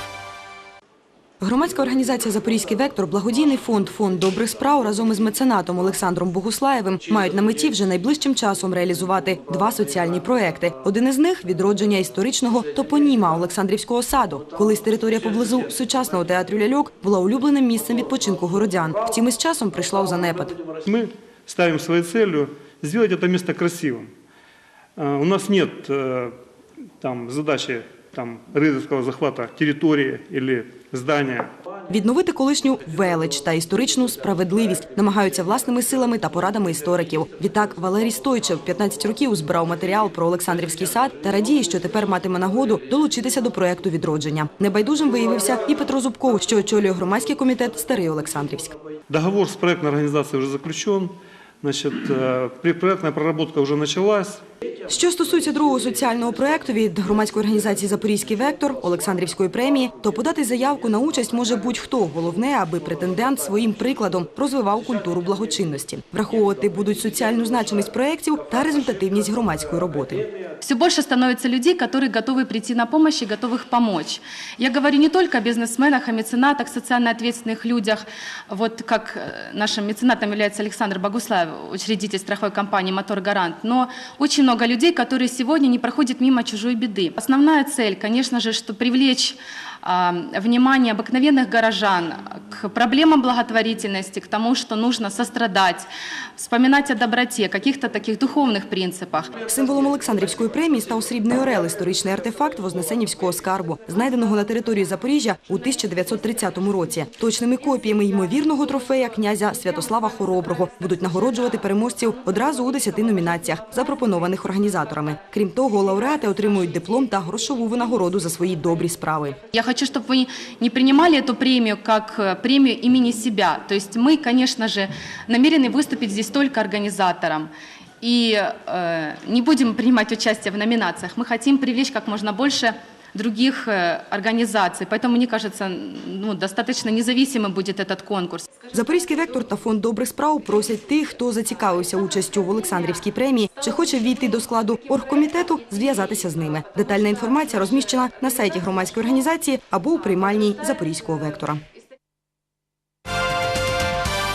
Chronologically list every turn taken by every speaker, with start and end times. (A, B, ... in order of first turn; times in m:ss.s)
0:01.4-0:20.6 A
0:20.8-0:24.1 B
0:25.0-0:26.4 B
0:27.0-0:31.5 B
0:31.9-0:48.8 A
0:49.1-0:54.4 B
0:54.9-1:10.3 A
1:10.6-1:35.9 C
1:36.4-1:39.3 C
1:39.5-1:59.4 A
1:59.5-2:18.5 C
2:18.7-2:31.6 A